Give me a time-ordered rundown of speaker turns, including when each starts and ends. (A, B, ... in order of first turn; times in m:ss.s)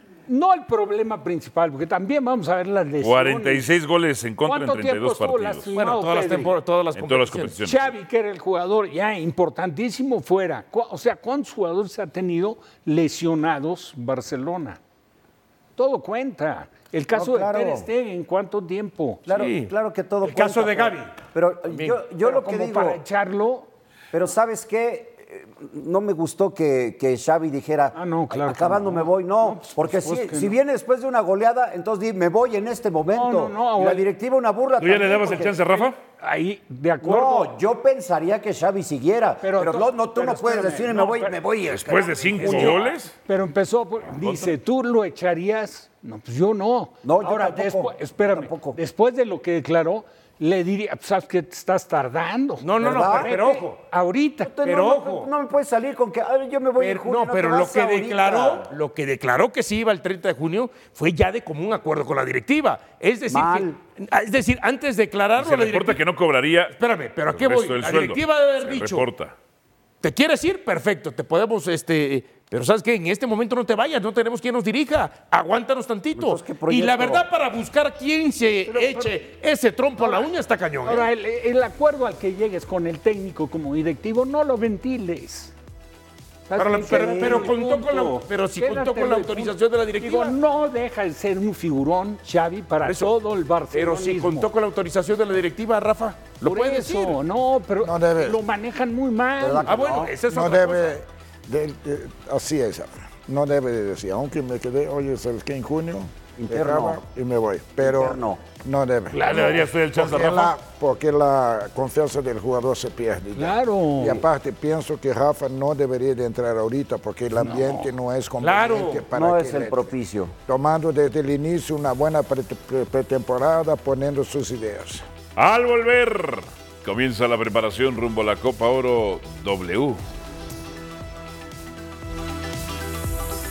0:00.3-0:03.7 A
0:03.0-0:05.7 B
0:04.4-0:06.5 A
0:05.7-0:07.6 C
0:06.9-0:07.9 B
0:07.6-0:14.8 A
0:15.8-0:19.2 A
0:17.1-0:17.9 D
0:19.2-0:23.0 D
0:19.3-0:22.0 C
0:22.2-0:23.7 A
0:24.1-0:35.8 D
0:27.9-0:30.6 A
0:33.1-0:34.0 A
0:34.8-0:36.0 B
0:36.2-0:37.6 A
0:37.0-0:42.6 D
0:39.4-0:41.4 A
0:41.6-0:43.1 B
0:42.3-0:54.5 A
0:42.4-0:42.9 C
0:44.2-0:44.5 C
0:47.0-0:48.8 D
0:52.6-0:53.8 C
0:52.8-0:53.6 D
0:54.4-0:58.7 D
0:54.6-0:55.3 C
0:56.8-1:06.0 C
1:03.3-1:03.8 D
1:05.4-1:06.7 B
1:06.7-1:09.0 C
1:07.3-1:09.3 B
1:10.0-1:21.1 C
1:16.1-1:17.2 D
1:18.7-1:19.1 A
1:20.0-1:20.3 A
1:20.8-1:25.5 A
1:26.5-1:34.5 A
1:26.6-1:30.3 C
1:32.8-1:33.1 C
1:33.7-1:37.2 C
1:36.4-1:39.7 A
1:37.8-1:38.4 E
1:39.4-1:40.1 D
1:39.7-1:41.0 C
1:40.2-1:59.9 E
1:46.4-1:47.0 D
1:47.8-1:48.4 D
1:49.1-1:50.6 B
1:53.4-1:54.2 A
1:57.4-1:57.8 A
1:58.4-1:59.1 C
1:59.1-2:00.3 D
2:00.4-2:05.0 E
2:05.4-2:10.0 B